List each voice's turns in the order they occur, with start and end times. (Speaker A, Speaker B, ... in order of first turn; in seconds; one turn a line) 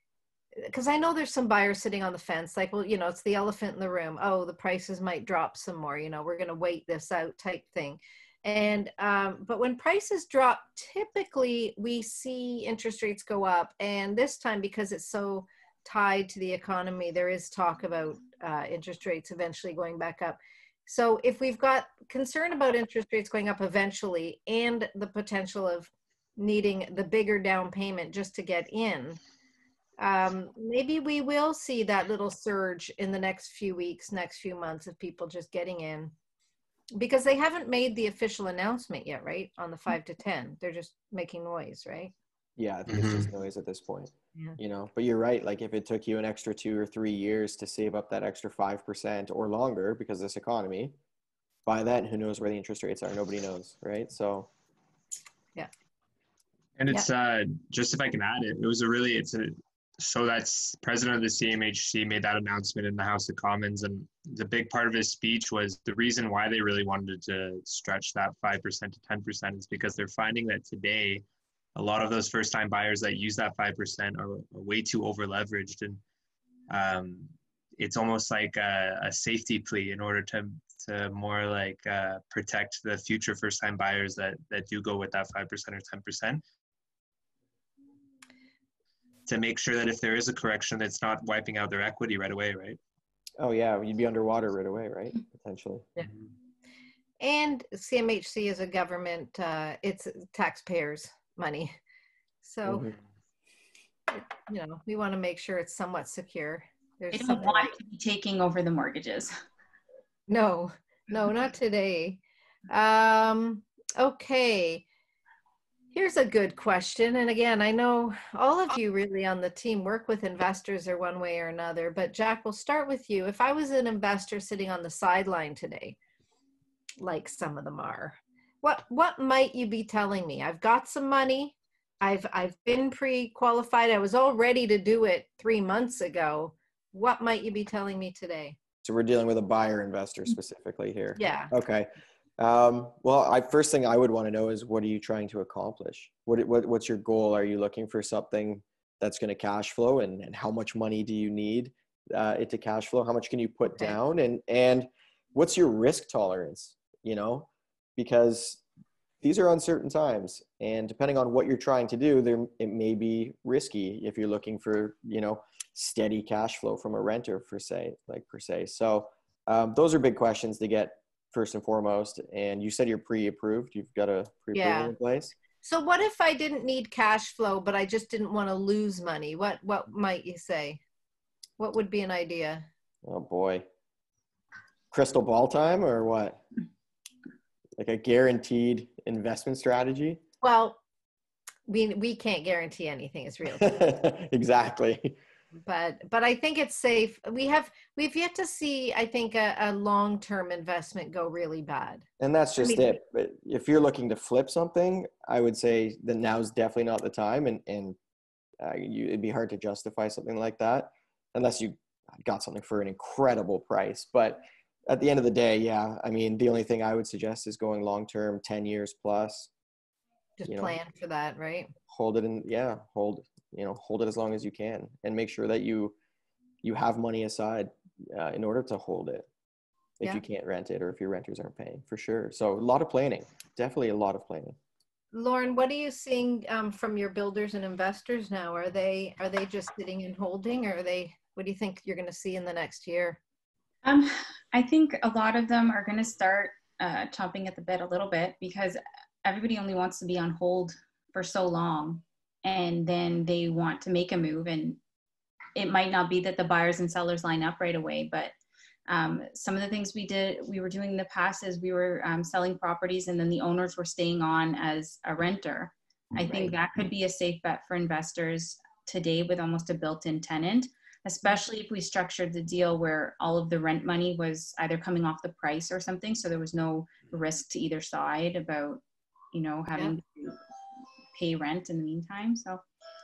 Speaker A: 0.6-29.2
Speaker A: 30.0-36.1
Speaker A: 37.0-42.1
Speaker B: 42.6-51.0
Speaker C: 42.9-43.3
Speaker B: 51.7-54.5
Speaker C: 56.8-71.2
Speaker C: 71.8-76.0
Speaker C: 76.7-86.4
Speaker C: 89.3-92.8
Speaker B: 93.4-95.9
Speaker A: 97.2-101.7
Speaker A: 102.4-102.8
Speaker B: 102.7-103.0
Speaker A: 104.1-107.8
Speaker D: 107.1-109.3
Speaker A: 110.3-114.8
Speaker A: 115.9-126.0
Speaker A: 127.0-138.6
Speaker B: 138.8-158.6
Speaker A: 141.2-141.5
Speaker B: 159.2-175.3
Speaker A: 174.5-174.9
Speaker A: 175.6-180.8
Speaker A: 181.6-182.7
Speaker B: 183.1-183.7
Speaker B: 184.9-186.4
Speaker B: 187.8-190.2
Speaker A: 190.4-190.8
Speaker A: 191.7-193.8
Speaker B: 193.6-195.2
Speaker A: 195.7-202.1
Speaker B: 202.2-208.0
Speaker A: 202.6-202.9
Speaker B: 208.6-219.5
Speaker A: 220.4-221.7
Speaker B: 220.5-220.8
Speaker B: 221.9-225.9
Speaker B: 226.6-229.3
Speaker B: 230.0-234.6
Speaker A: 235.1-243.2
Speaker D: 243.8-254.8
Speaker D: 255.6-258.3
Speaker D: 258.9-278.8
Speaker B: 266.3-266.5
Speaker D: 279.3-280.4
Speaker D: 281.1-282.6